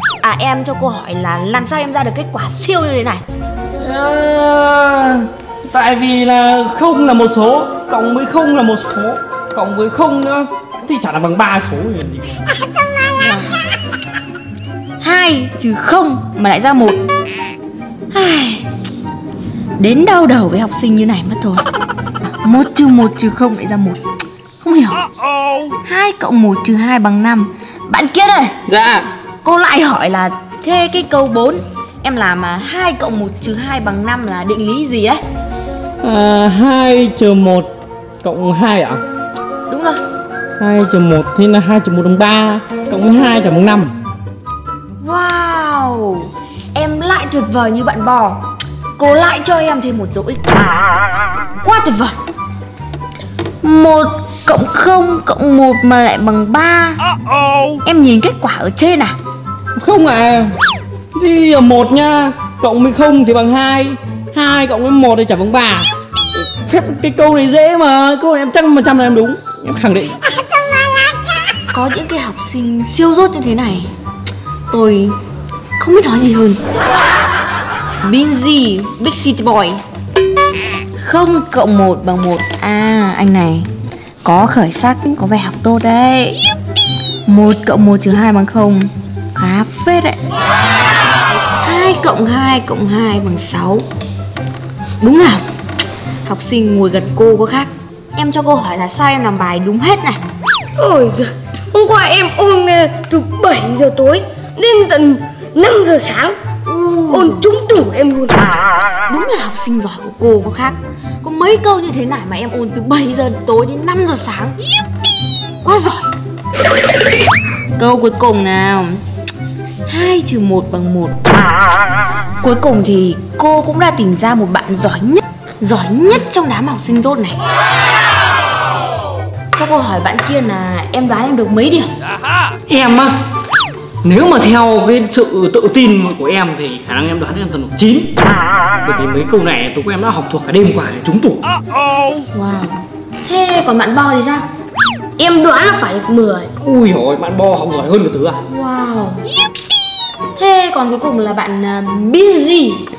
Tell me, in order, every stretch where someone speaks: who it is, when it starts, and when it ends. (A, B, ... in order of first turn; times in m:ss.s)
0:00.2-0:03.2 A
0:03.7-0:12.4 B
0:13.2-0:13.6 A
0:15.0-0:17.0 A
0:18.1-0:18.6 A
0:19.8-0:21.6 A
0:22.4-0:24.0 A
0:24.6-0:25.0 A
0:25.8-0:28.6 A
0:28.7-0:29.1 B
0:29.4-0:35.2 A
0:36.0-0:37.7 B
0:38.2-0:39.0 B
0:39.7-0:40.0 A
0:40.6-0:43.9 B
0:45.0-0:48.4 A
0:49.0-0:50.5 A
0:51.6-0:52.2 A
0:53.6-0:57.0 A
0:57.8-0:59.2 A
0:59.8-1:00.6 B
1:01.1-1:10.2 B
1:11.7-1:13.9 A
1:14.7-1:15.2 A
1:15.8-1:16.6 A
1:18.0-1:19.8 A
1:21.0-1:23.7 A
1:24.2-1:26.4 A
1:27.2-1:30.2 A
1:31.6-1:33.8 A
1:35.0-1:35.4 A
1:36.2-1:40.2 A
1:40.8-1:46.4 C
1:46.6-1:47.5 A
1:47.1-1:48.5 C
1:49.1-1:54.6 A
1:55.6-1:56.1 A
1:57.8-1:59.0 A
1:59.9-2:01.2 A
2:02.4-2:07.4 A
2:09.6-2:11.9 A
2:12.7-2:13.2 B
2:14.0-2:18.1 B
2:18.8-2:21.4 B
2:22.3-2:24.4 A
2:25.2-2:26.5 C
2:26.6-2:28.4 B
2:28.5-2:29.2 A
2:30.4-2:32.8 A